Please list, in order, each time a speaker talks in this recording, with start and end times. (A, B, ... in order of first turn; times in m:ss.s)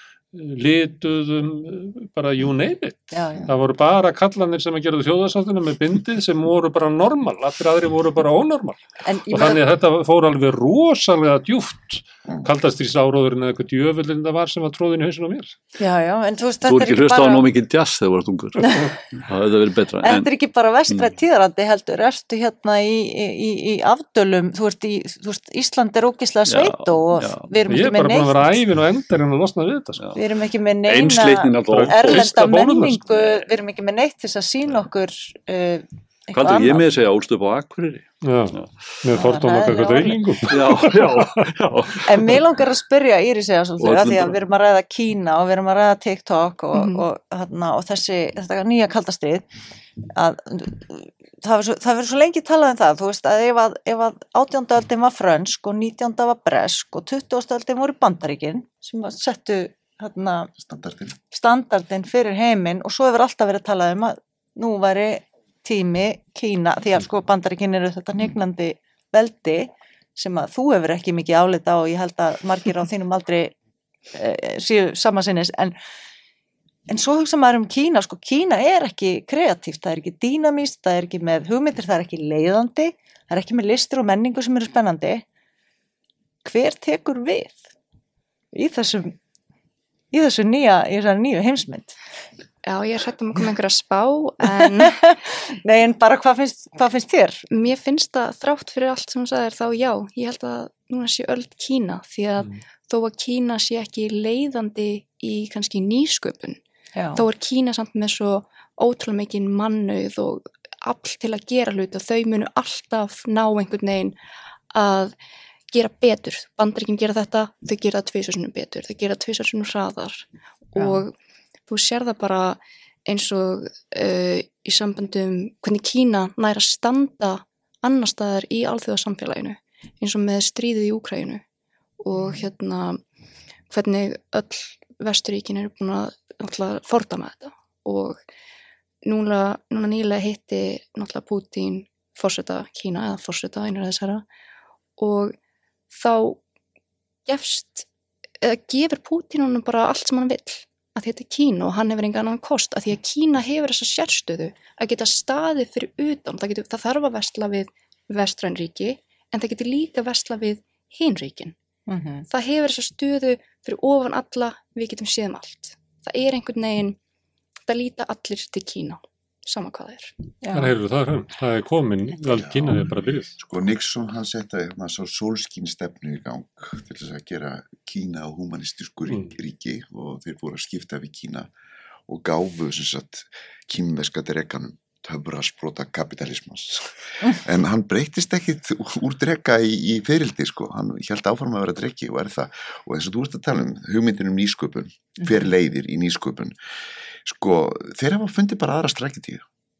0:00.3-0:15.5 A
0:03.1-0:03.5 B
0:09.0-0:09.6 B
0:15.8-0:17.5 B
0:16.6-0:20.3 C
0:18.6-0:18.9 B
0:20.0-0:28.6 B
0:26.5-0:27.7 C
0:27.7-0:30.0 A
0:30.0-0:30.2 C
0:30.1-0:36.8 B
0:30.8-0:32.5 C
0:31.7-0:33.0 A
0:33.1-0:33.4 C
0:36.3-0:38.7 C
0:38.2-0:41.4 A
0:39.1-0:40.4 B
0:40.5-0:42.4 C
0:42.0-0:49.4 B
0:43.8-0:44.4 C
0:46.7-0:47.0 D
0:50.2-1:00.5 B
1:00.6-1:01.2 E
1:01.3-1:13.5 B
1:14.1-1:15.7 B
1:16.9-1:25.2 B
1:26.4-1:27.6 B
1:28.5-1:29.1 B
1:30.1-1:32.0 B
1:32.6-1:35.0 D
1:34.5-1:37.4 B
1:37.5-1:46.6 D
1:46.9-1:47.2 B
1:47.2-1:54.1 D
1:54.7-1:55.1 D
1:55.7-2:01.1 D
2:00.8-2:01.0 B
2:01.7-2:11.4 D
2:12.0-2:13.0 D
2:13.7-2:18.2 D
2:19.0-2:24.2 D
2:25.0-2:25.4 D
2:25.9-2:26.4 D
2:27.2-2:27.9 D
2:28.4-2:41.5 D
2:41.9-2:42.2 B
2:42.3-2:47.0 D
2:47.7-2:50.1 D
2:50.4-2:50.7 B
2:50.5-2:53.3 A
2:52.2-2:52.8 E
2:53.4-3:01.5 E
3:02.1-3:16.6 E
3:17.2-3:19.4 E